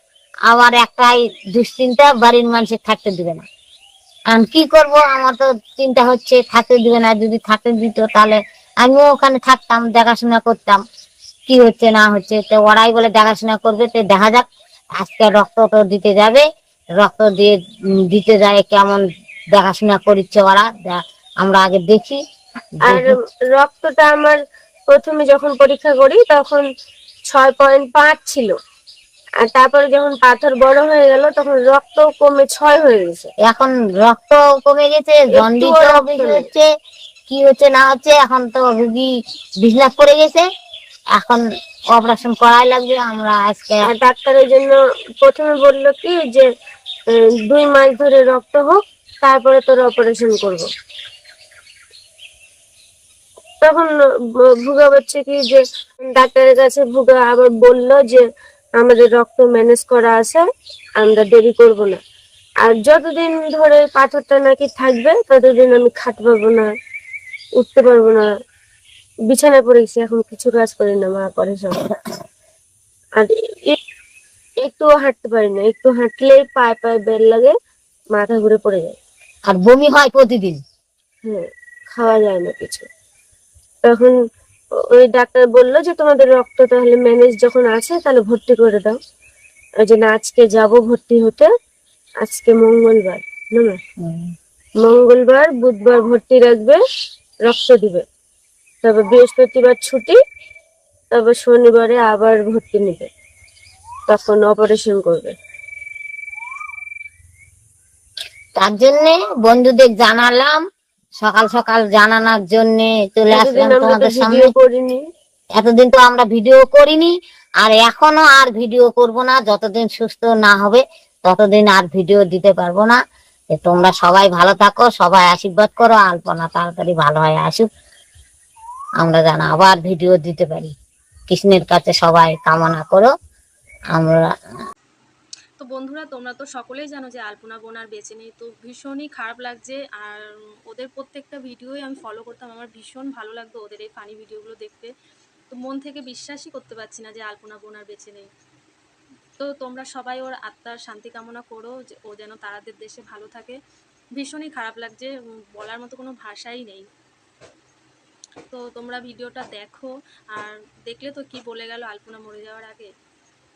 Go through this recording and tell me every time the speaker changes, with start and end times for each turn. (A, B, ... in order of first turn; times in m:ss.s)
0:00.5-0:03.5 A
0:04.3-0:10.8 A
0:11.5-0:14.5 A
0:15.0-0:16.5 A
0:17.0-0:17.6 A
0:18.1-0:19.0 A
0:19.6-0:22.2 A
0:22.8-0:23.2 A
0:22.8-0:24.4 B
0:24.9-0:26.6 B
0:27.3-0:28.5 B
0:29.4-0:33.3 B
0:33.4-0:36.7 A
0:35.3-0:36.5 B
0:37.3-0:39.1 A
0:39.6-0:40.5 A
0:41.2-0:43.8 A
0:43.9-0:46.5 B
0:47.1-0:50.7 B
0:53.6-0:58.2 B
0:58.8-1:00.4 B
1:01.0-1:02.0 B
1:02.6-1:06.7 B
1:07.6-1:08.3 B
1:09.3-1:11.8 B
1:13.2-1:13.8 B
1:14.6-1:17.5 B
1:18.1-1:19.0 B
1:19.5-1:20.6 A
1:21.2-1:22.9 B
1:23.8-1:24.2 B
1:24.8-1:29.0 B
1:29.8-1:31.5 B
1:32.2-1:33.8 B
1:34.0-1:34.3 A
1:34.8-1:36.8 B
1:37.4-1:38.0 B
1:38.8-1:40.2 B
1:41.1-1:43.1 B
1:44.1-1:45.3 B
1:48.6-1:50.6 A
1:51.2-1:54.5 A
1:53.3-1:55.0 B
1:55.6-2:03.0 A
2:03.5-2:07.7 A
2:09.0-2:10.7 A
2:11.3-2:13.1 A
2:13.9-2:14.3 A
2:15.6-2:24.9 C
2:25.5-2:28.3 C
2:29.4-2:33.6 C
2:34.2-2:36.8 C
2:38.5-2:42.9 C